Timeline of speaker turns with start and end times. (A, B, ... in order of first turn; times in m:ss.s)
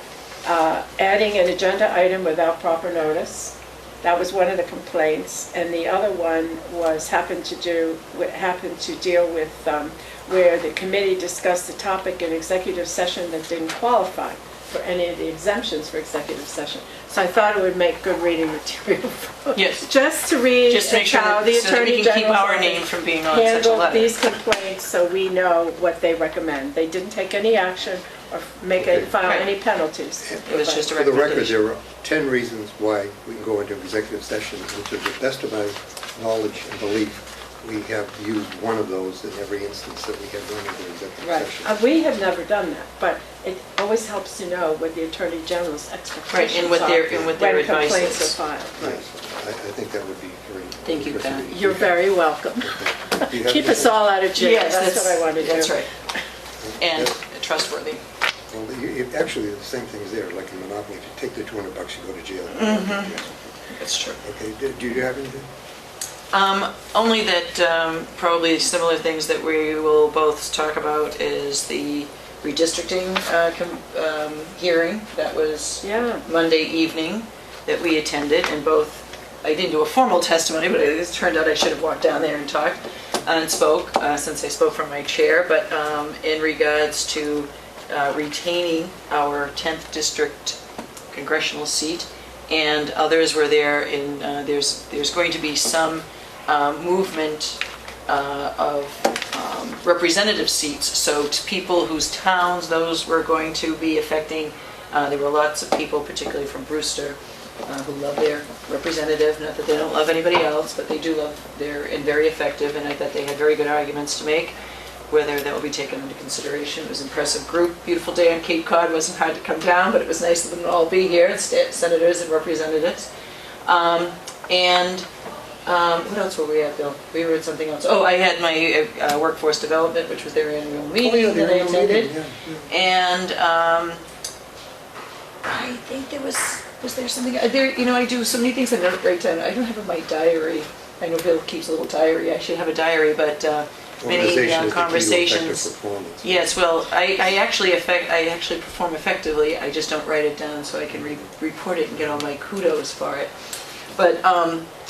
0:00.4-0:30.8 A
0:19.5-0:19.9 B
0:20.6-0:24.2 B
0:28.8-0:29.1 C
0:29.2-0:29.5 B
0:30.2-0:41.7 C
0:30.5-0:31.6 B
0:41.2-0:49.0 A
0:46.3-0:48.4 B
0:47.1-0:47.4 C
0:48.8-0:54.0 C
0:50.8-0:51.5 B
0:51.5-0:55.8 A
0:54.3-0:55.9 B
0:56.6-0:57.2 C
0:56.8-0:58.0 B
0:58.5-1:03.4 C
1:02.5-1:04.2 B
1:04.2-1:05.4 C
1:06.3-1:30.6 B
1:15.8-1:16.2 A
1:31.1-1:54.5 B
1:55.1-2:03.1 B
2:03.6-2:05.0 B
2:05.6-2:12.2 B
2:11.0-2:12.5 C
2:12.7-2:14.0 B
2:15.5-2:25.7 B
2:24.0-2:26.5 C
2:26.2-2:33.3 B
2:33.9-2:34.6 B